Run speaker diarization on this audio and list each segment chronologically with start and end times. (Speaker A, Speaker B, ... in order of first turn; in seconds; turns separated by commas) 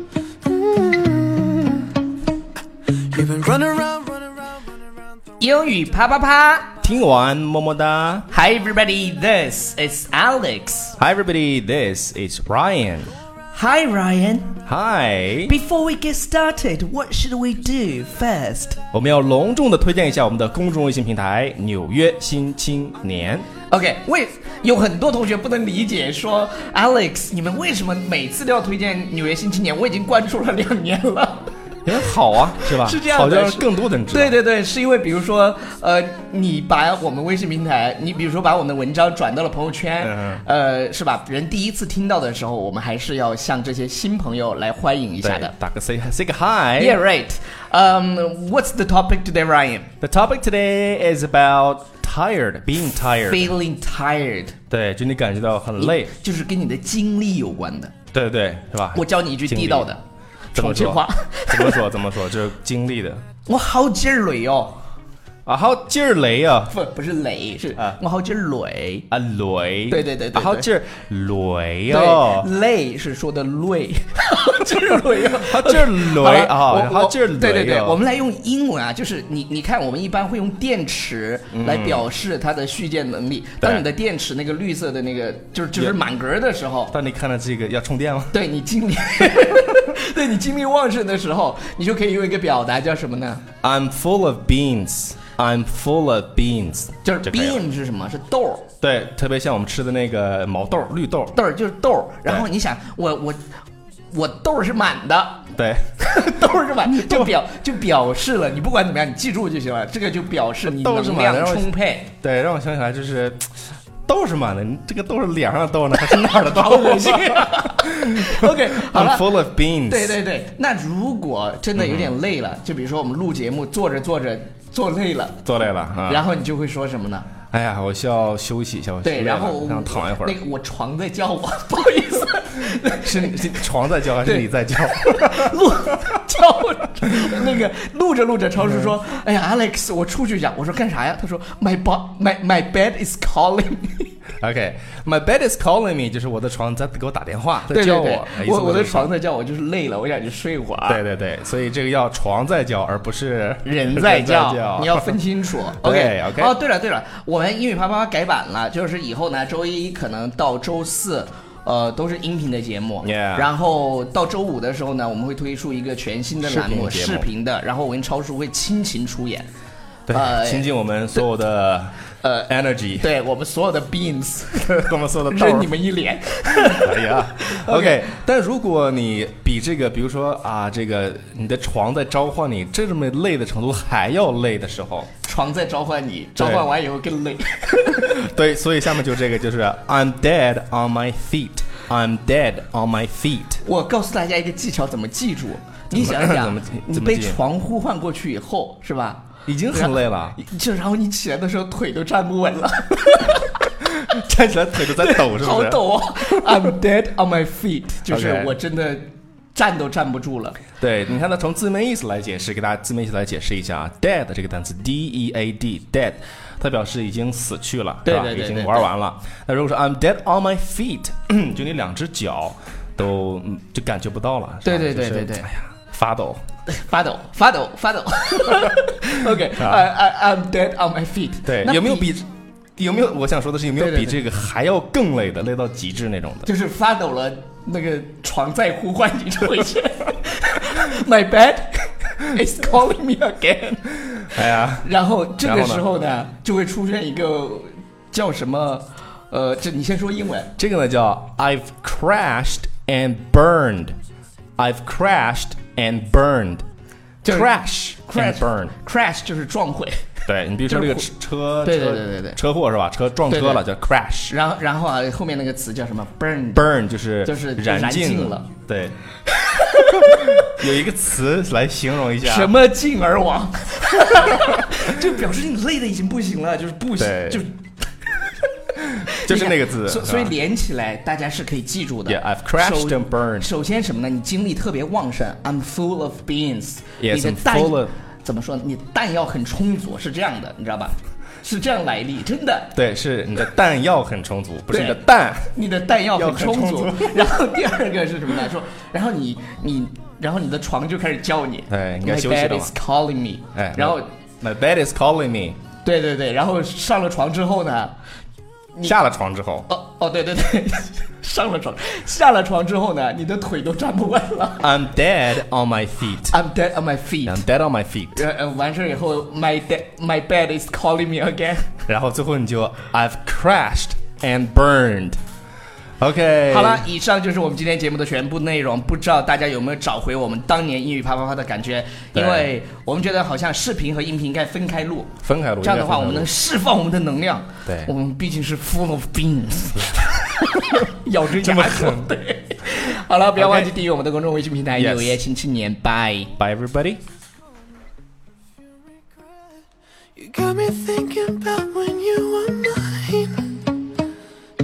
Speaker A: 0.5-1.8, Speaker A: 3.1-4.4, Speaker B: 5.4-6.7, Speaker C: 6.8-8.3, Speaker B: 8.3-11.0, Speaker C: 11.0-13.1, Speaker B: 13.5-14.6, Speaker C: 14.7-15.5, Speaker B: 15.5-18.8, Speaker C: 18.9-23.5, Speaker B: 23.7-31.5, Speaker C: 31.9-34.4, Speaker B: 32.5-45.5, Speaker C: 40.0-40.4, Speaker C: 45.2-47.0, Speaker B: 46.8-49.9, Speaker C: 50.0-53.5, Speaker B: 53.3-54.5, Speaker C: 54.7-56.1, Speaker B: 55.8-57.9, Speaker C: 58.1-59.9, Speaker B: 58.9-60.0, Speaker C: 60.5-63.2, Speaker B: 60.5-61.9, Speaker B: 63.5-64.8, Speaker C: 65.5-66.7, Speaker B: 66.7-69.1, Speaker C: 69.1-72.5, Speaker B: 69.9-70.7, Speaker B: 71.9-86.9, Speaker C: 75.2-78.0, Speaker C: 81.5-82.1, Speaker C: 86.9-88.4, Speaker B: 88.3-93.4, Speaker C: 93.6-97.6, Speaker B: 97.0-98.7, Speaker C: 98.8-101.4, Speaker B: 101.3-103.4, Speaker B: 104.1-105.5, Speaker C: 105.6-107.3, Speaker B: 106.0-112.1, Speaker C: 110.7-113.5, Speaker C: 114.1-120.2, Speaker B: 116.2-119.3, Speaker B: 119.9-125.4, Speaker C: 121.8-122.1, Speaker C: 125.5-126.2, Speaker B: 126.1-127.3, Speaker C: 127.5-130.4, Speaker B: 129.0-133.7, Speaker C: 133.0-136.1, Speaker B: 134.2-144.1, Speaker C: 138.6-138.9, Speaker C: 144.4-149.1, Speaker B: 147.7-151.0, Speaker C: 150.9-155.2, Speaker B: 153.6-169.5, Speaker C: 155.8-156.5, Speaker C: 163.0-163.5, Speaker C: 166.4-167.3, Speaker C: 170.1-173.1, Speaker B: 170.1-171.2, Speaker B: 172.2-178.0, Speaker C: 174.7-175.7, Speaker C: 176.6-185.1, Speaker B: 185.2-188.2, Speaker C: 186.4-186.7, Speaker C: 188.0-193.6, Speaker B: 193.6-203.7, Speaker C: 195.9-197.4, Speaker C: 199.5-200.4, Speaker C: 204.0-206.6, Speaker B: 204.9-210.6, Speaker C: 208.1-208.5, Speaker C: 210.8-226.4, Speaker B: 218.1-218.9, Speaker B: 224.6-225.5, Speaker B: 226.7-232.1, Speaker C: 229.6-229.9, Speaker C: 231.4-236.5, Speaker B: 233.8-234.2, Speaker B: 236.4-250.5, Speaker C: 244.3-244.9, Speaker C: 245.4-245.9, Speaker C: 250.6-254.0, Speaker C: 254.6-256.6, Speaker B: 257.2-257.5, Speaker C: 257.2-258.7, Speaker B: 258.1-260.1, Speaker C: 260.3-264.4, Speaker B: 260.7-261.1, Speaker B: 261.6-262.4, Speaker B: 263.3-263.6, Speaker B: 264.3-266.6, Speaker C: 266.5-269.0, Speaker B: 267.2-268.5, Speaker B: 269.3-270.6, Speaker C: 270.0-272.5, Speaker B: 272.2-292.7, Speaker C: 277.0-277.4, Speaker C: 278.8-280.3, Speaker C: 282.1-283.5, Speaker C: 287.0-287.9, Speaker C: 292.8-295.5, Speaker B: 294.7-295.0, Speaker B: 295.5-304.1, Speaker C: 296.1-297.4, Speaker C: 301.7-302.7, Speaker C: 303.6-305.6, Speaker B: 305.8-307.9, Speaker C: 308.8-309.7, Speaker B: 309.7-314.7, Speaker C: 314.6-316.4, Speaker B: 316.3-317.4, Speaker C: 317.2-318.2, Speaker B: 318.1-321.8, Speaker C: 321.9-325.2, Speaker C: 326.0-326.9, Speaker B: 326.5-346.3, Speaker C: 332.1-332.5, Speaker C: 335.2-336.3, Speaker C: 340.5-340.9, Speaker C: 341.4-342.1, Speaker C: 343.4-343.7, Speaker C: 344.8-345.2, Speaker C: 346.4-347.0, Speaker A: 350.2-353.6